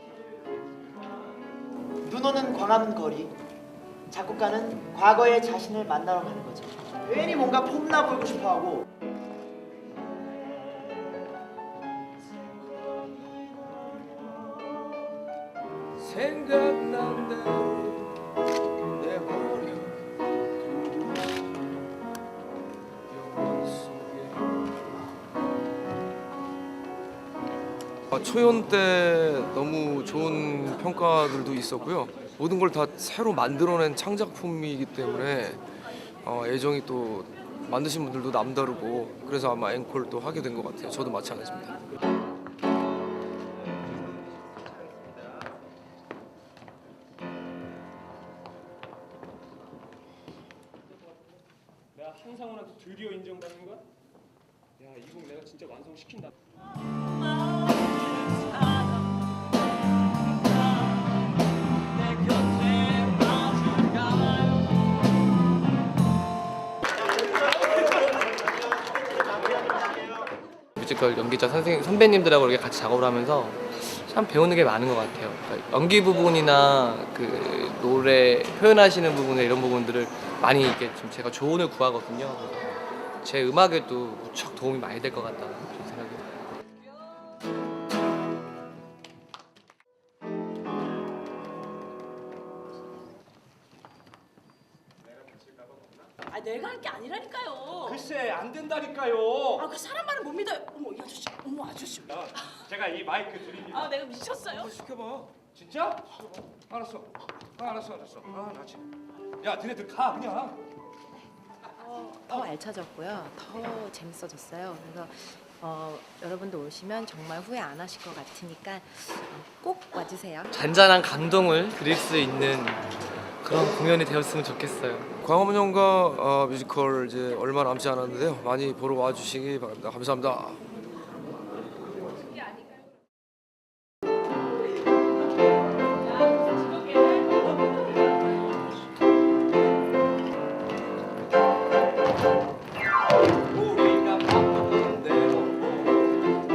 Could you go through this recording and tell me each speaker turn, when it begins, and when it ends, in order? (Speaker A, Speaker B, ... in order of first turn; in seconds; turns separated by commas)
Speaker A: 2.0-3.4, Speaker A: 4.1-8.8, Speaker B: 16.0-18.1, Speaker B: 19.0-20.0, Speaker B: 20.6-21.6, Speaker B: 23.1-24.5, Speaker B: 28.1-35.6, Speaker B: 36.2-41.8, Speaker C: 51.9-53.8, Speaker C: 54.8-56.3, Speaker D: 70.8-82.7, Speaker D: 83.2-86.3, Speaker E: 96.3-98.0, Speaker C: 97.8-99.7, Speaker E: 99.6-102.0, Speaker C: 102.0-104.0, Speaker E: 103.8-104.7, Speaker B: 104.4-105.3, Speaker C: 105.4-108.8, Speaker C: 109.4-110.6, Speaker F: 111.8-120.5, Speaker D: 120.5-125.1, Speaker B: 125.2-130.6, Speaker C: 143.5-146.1